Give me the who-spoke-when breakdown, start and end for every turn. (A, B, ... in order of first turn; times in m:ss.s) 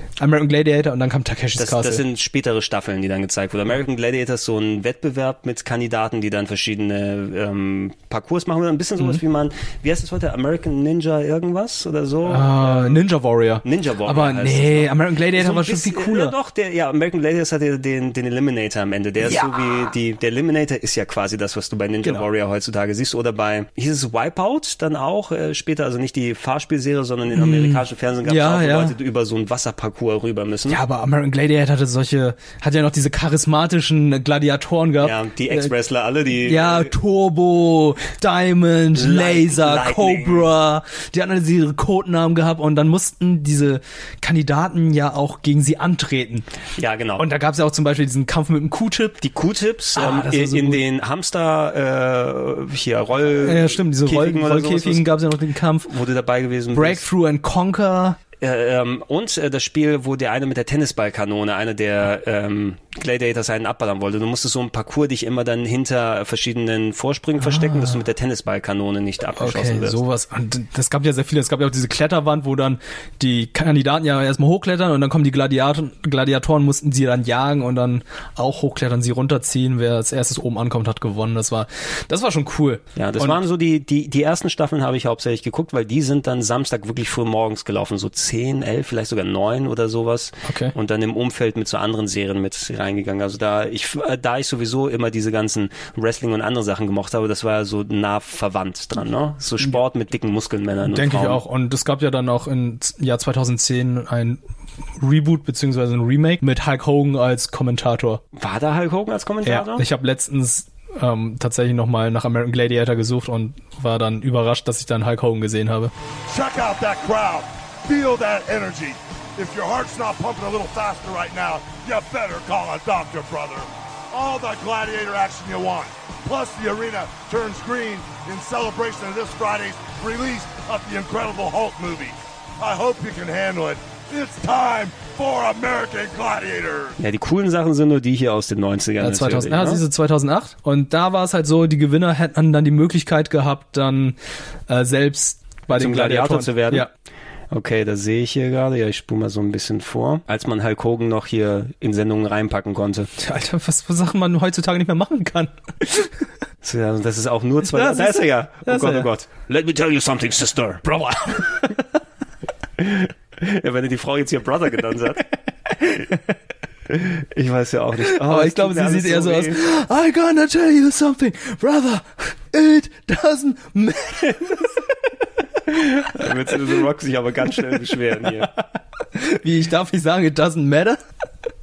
0:00.2-0:02.0 A
0:01.6-0:13.0 B
0:12.2-0:16.3 A
0:13.6-0:30.8 B
0:19.2-0:19.5 A
0:27.3-0:28.9 A
0:30.7-0:35.7 A
0:35.0-0:36.9 B
0:36.4-0:46.4 A
0:38.9-0:40.5 B
0:46.8-0:47.2 B
0:47.2-0:49.2 A
0:49.2-0:55.1 B
0:49.9-0:50.8 A
0:53.4-0:55.9 A
0:55.9-0:57.0 B
0:56.7-0:58.2 A
0:58.4-1:10.0 B
1:07.4-1:08.0 A
1:09.4-1:23.4 A
1:23.0-1:41.4 B
1:30.4-1:30.7 A
1:40.9-1:44.4 A
1:45.0-1:48.2 A
1:48.3-1:49.8 B
1:49.4-1:55.9 A
1:56.3-2:17.0 C
2:17.0-2:19.8 B
2:19.0-2:24.2 A
2:24.7-2:26.9 A
2:25.7-2:26.9 B
2:27.5-2:33.1 B
2:33.2-2:36.1 A
2:36.6-2:40.9 B
2:37.6-2:39.1 A
2:40.8-2:41.8 A
2:42.8-2:45.2 B
2:45.8-2:46.2 A
2:46.9-2:49.6 B
2:48.1-2:54.7 A
2:55.7-2:58.5 B
2:59.1-3:01.0 A